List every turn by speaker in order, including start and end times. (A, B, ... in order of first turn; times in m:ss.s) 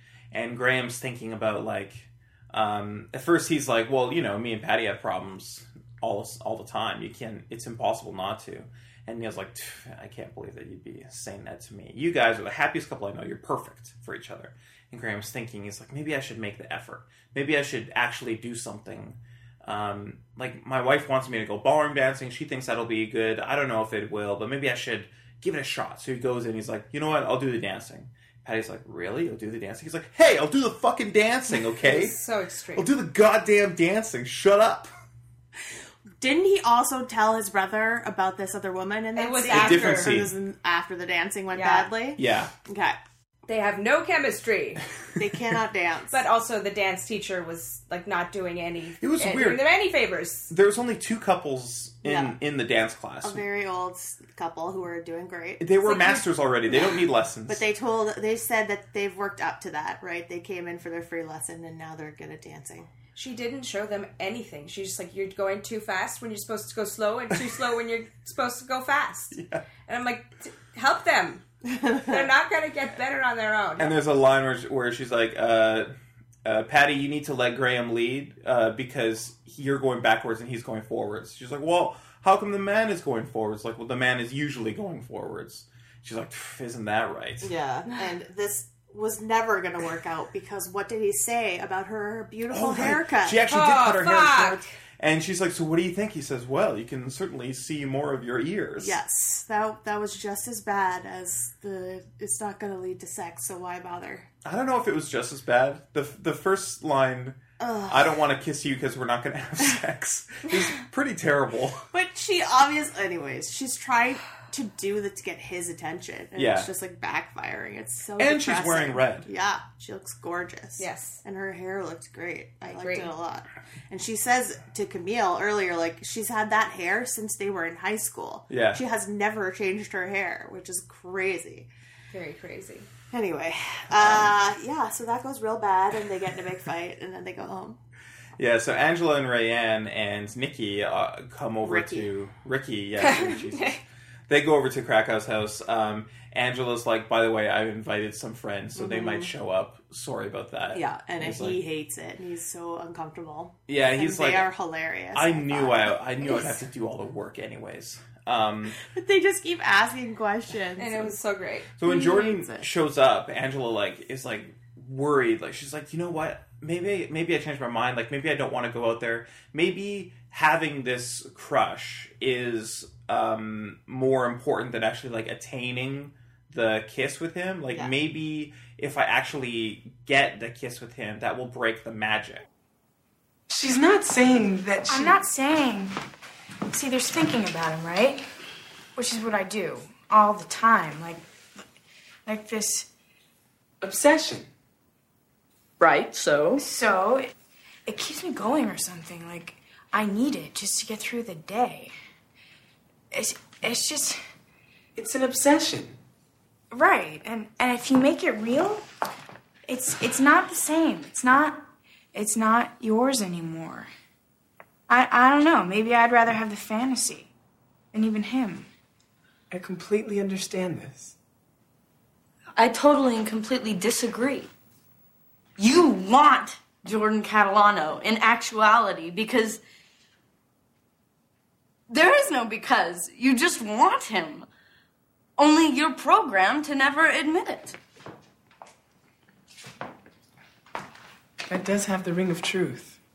0:00.3-0:32.2 A
0:31.7-0:32.9 B
0:32.8-0:34.9 A
0:36.2-0:43.0 C
0:39.2-0:40.2 B
0:39.5-0:40.3 A
0:41.5-0:41.9 B
0:42.2-0:42.5 A
0:43.5-0:44.8 B
0:45.2-0:46.2 C
0:46.1-0:50.5 B
0:49.0-0:49.6 A
0:50.5-0:53.4 A
0:52.0-0:52.4 C
0:53.2-1:02.9 C
0:55.6-0:57.7 A
0:55.9-0:56.2 B
1:03.2-1:11.4 B
1:09.3-1:09.6 A
1:11.7-1:12.2 C
1:12.0-1:14.0 B
1:13.8-1:15.9 A
1:16.4-1:27.5 A
1:27.4-1:33.4 C
1:32.5-1:39.0 A
1:33.5-1:34.6 B
1:38.8-1:44.3 C
1:44.4-1:51.8 A
1:47.6-1:48.2 C
1:51.9-2:11.7 C
1:56.4-1:56.7 A
1:58.2-1:59.3 A
2:00.8-2:01.2 B
2:02.7-2:03.1 B
2:08.5-2:08.8 A
2:12.1-2:12.9 B
2:13.1-2:17.8 C
2:13.9-2:14.4 A
2:18.4-2:31.6 A
2:21.6-2:22.1 C
2:23.0-2:23.8 B
2:28.8-2:29.3 C
2:30.7-2:36.6 C
2:33.7-2:34.5 A
2:35.1-2:38.8 A
2:38.8-2:41.2 C
2:40.8-2:41.8 B
2:41.8-3:02.4 A
2:41.8-2:42.7 C
3:03.5-3:05.2 D
3:04.9-3:05.9 E
3:06.7-3:08.3 E
3:09.0-3:11.2 E
3:12.3-3:12.9 E
3:13.8-3:14.5 D
3:15.8-3:16.6 F
3:16.6-3:17.3 E
3:17.9-3:21.9 E
3:23.1-3:24.2 E
3:25.0-3:26.0 D
3:26.7-3:28.9 E
3:29.7-3:33.9 E
3:34.9-3:37.3 E
3:37.9-3:38.7 E
3:39.5-3:41.2 D
3:42.6-3:44.5 F
3:45.6-3:49.6 F
3:51.9-3:54.5 F
3:55.4-3:57.8 F
4:01.5-4:03.0 D